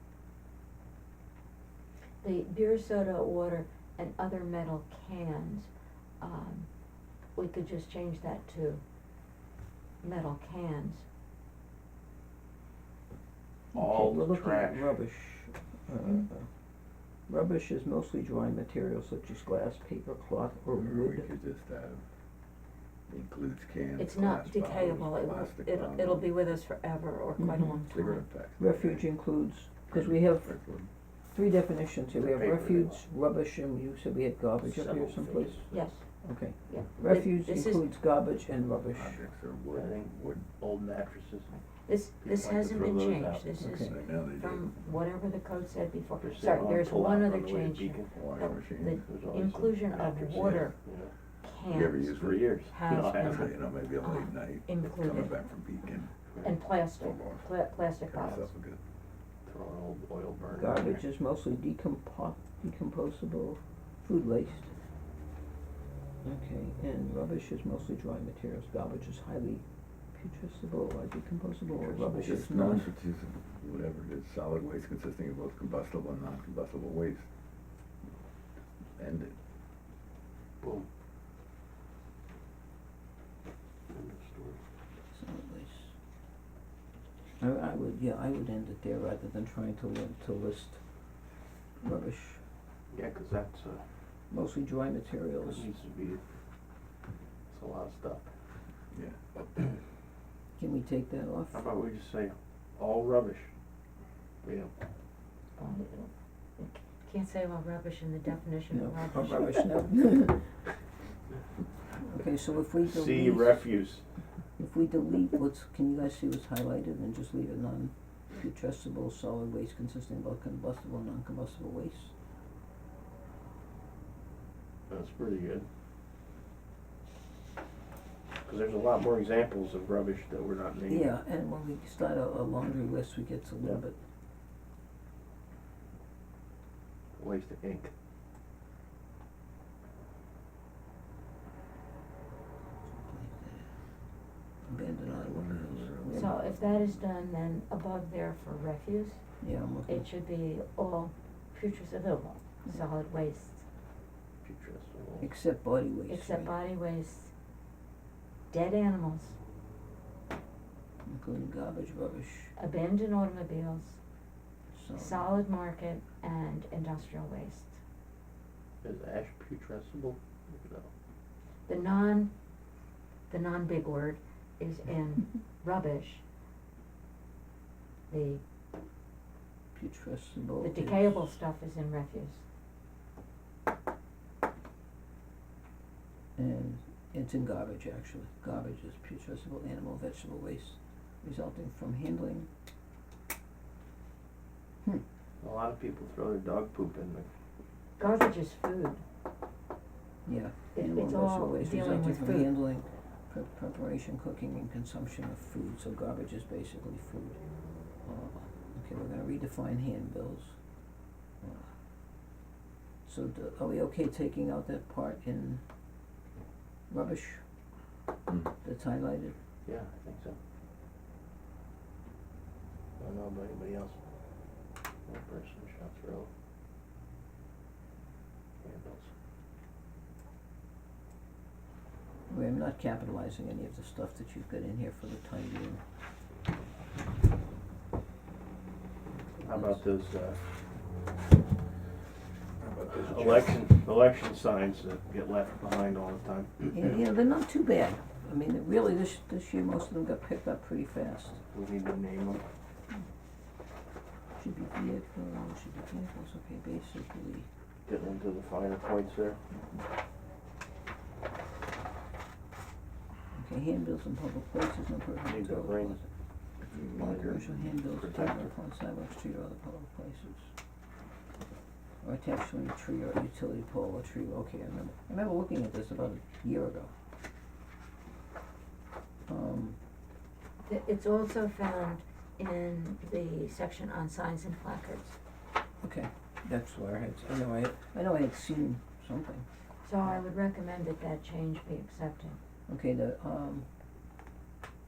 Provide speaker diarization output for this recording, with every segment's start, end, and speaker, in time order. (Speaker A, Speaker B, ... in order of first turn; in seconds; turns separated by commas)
Speaker A: 2.2-6.7, Speaker A: 7.3-8.8, Speaker A: 10.0-11.0, Speaker B: 13.7-15.0, Speaker C: 13.7-16.5, Speaker C: 17.3-21.3, Speaker D: 20.7-22.1, Speaker D: 23.1-26.4, Speaker A: 24.0-28.2, Speaker C: 27.4-27.8, Speaker D: 27.9-29.1, Speaker C: 28.6-30.5, Speaker D: 29.9-30.9, Speaker C: 31.3-35.7, Speaker B: 32.1-33.0, Speaker B: 34.6-35.7, Speaker A: 35.7-36.0, Speaker C: 36.2-39.2, Speaker A: 36.7-37.9, Speaker D: 38.9-40.5, Speaker B: 39.7-41.5, Speaker A: 41.5-50.8, Speaker B: 42.2-43.5, Speaker C: 43.6-44.0, Speaker D: 43.8-44.7, Speaker B: 46.2-48.2, Speaker D: 48.1-49.0, Speaker B: 49.1-51.1, Speaker D: 50.1-50.7, Speaker A: 51.4-55.4, Speaker D: 51.7-56.1, Speaker B: 52.1-53.5, Speaker C: 52.9-53.3, Speaker B: 56.3-56.6, Speaker A: 56.4-58.5, Speaker D: 57.0-57.5, Speaker D: 58.0-58.8, Speaker B: 59.5-61.0, Speaker C: 60.5-64.7, Speaker C: 66.2-69.6, Speaker C: 70.1-73.0, Speaker D: 71.8-77.3, Speaker B: 71.9-72.4, Speaker D: 79.0-79.3, Speaker B: 80.6-80.9, Speaker B: 83.9-84.6, Speaker C: 85.1-85.9, Speaker C: 87.4-90.8, Speaker C: 91.8-92.4, Speaker B: 92.9-93.8, Speaker C: 94.3-95.7, Speaker B: 95.4-96.2, Speaker B: 97.5-98.3, Speaker D: 98.9-99.5, Speaker C: 100.6-101.7, Speaker B: 101.5-103.5, Speaker B: 104.4-104.7, Speaker A: 105.6-109.8, Speaker C: 108.7-110.7, Speaker C: 111.9-113.7, Speaker B: 112.8-114.1, Speaker C: 114.6-122.1, Speaker B: 124.9-125.7, Speaker B: 128.4-131.1, Speaker C: 130.9-133.9, Speaker B: 137.2-137.9, Speaker C: 143.0-143.7, Speaker C: 144.6-146.4, Speaker D: 145.0-146.7, Speaker A: 146.1-149.2, Speaker C: 149.4-150.1, Speaker A: 149.9-153.6, Speaker B: 154.4-155.3, Speaker C: 155.2-156.5, Speaker A: 156.1-157.3, Speaker A: 158.5-159.4, Speaker C: 161.1-162.5, Speaker A: 162.6-164.0, Speaker C: 164.7-165.3, Speaker A: 164.9-167.8, Speaker B: 168.8-170.9, Speaker A: 171.7-172.3, Speaker A: 173.3-176.2, Speaker A: 178.1-178.4, Speaker C: 179.8-181.3, Speaker A: 180.6-182.4, Speaker C: 186.4-192.5, Speaker B: 195.4-197.3, Speaker A: 198.0-199.0, Speaker C: 200.3-207.4, Speaker A: 200.7-202.5, Speaker C: 208.0-210.6, Speaker C: 211.4-211.7, Speaker C: 213.1-215.6, Speaker C: 216.9-217.4, Speaker C: 218.6-219.3, Speaker B: 219.7-220.4, Speaker B: 223.0-224.0, Speaker B: 225.1-226.3, Speaker B: 228.6-229.1, Speaker C: 232.3-235.8, Speaker C: 239.4-239.8, Speaker B: 239.4-240.4, Speaker D: 242.6-243.6, Speaker B: 242.9-247.0, Speaker C: 246.7-251.4, Speaker B: 251.5-252.4, Speaker C: 254.4-257.5, Speaker B: 257.9-259.4, Speaker C: 263.3-266.1, Speaker B: 265.2-266.0, Speaker B: 266.7-268.5, Speaker C: 266.7-270.5, Speaker C: 272.0-276.9, Speaker C: 279.3-279.8, Speaker A: 280.6-285.2, Speaker C: 285.8-289.4, Speaker A: 289.8-292.4, Speaker C: 292.7-293.7